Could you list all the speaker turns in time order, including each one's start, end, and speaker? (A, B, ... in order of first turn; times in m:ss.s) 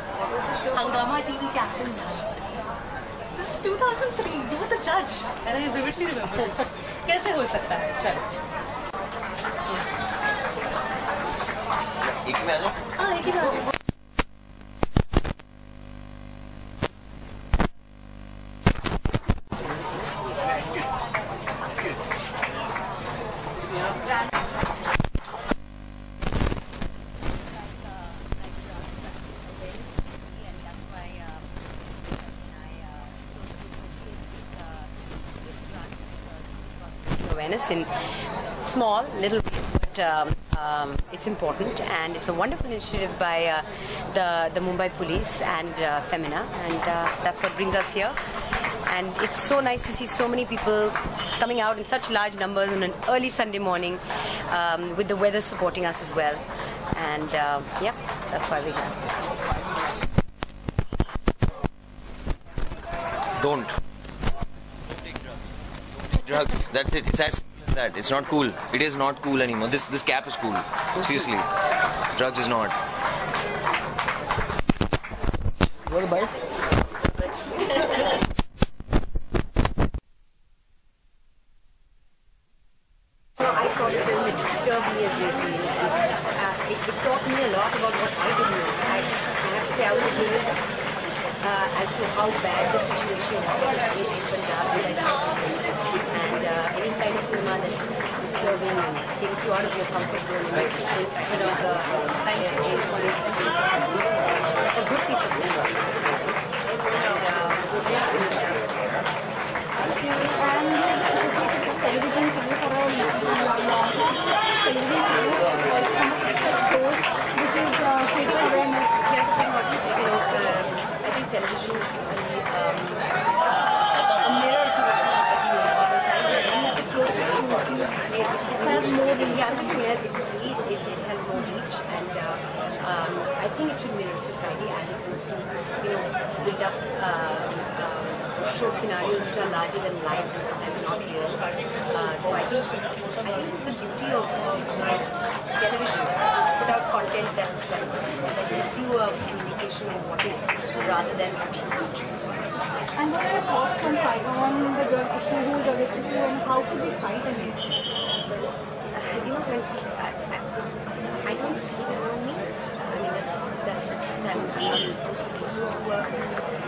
0:00.5-0:02.4 A
0:03.4-0:08.2 A
0:12.1-0:12.8 B
0:13.0-0:13.7 A
0:27.7-0:48.2 C
0:48.9-0:59.0 C
1:03.4-1:03.8 B
1:06.1-1:11.5 B
1:12.1-1:12.8 B
1:23.4-1:30.7 C
1:31.4-1:43.9 C
1:44.6-1:46.4 C
1:46.9-1:49.0 C
1:49.9-1:58.9 D
1:59.0-2:31.5 C
2:08.6-2:09.9 D
2:31.8-2:32.5 B
2:33.0-2:37.6 D
2:38.9-2:40.4 C
2:41.2-2:46.3 C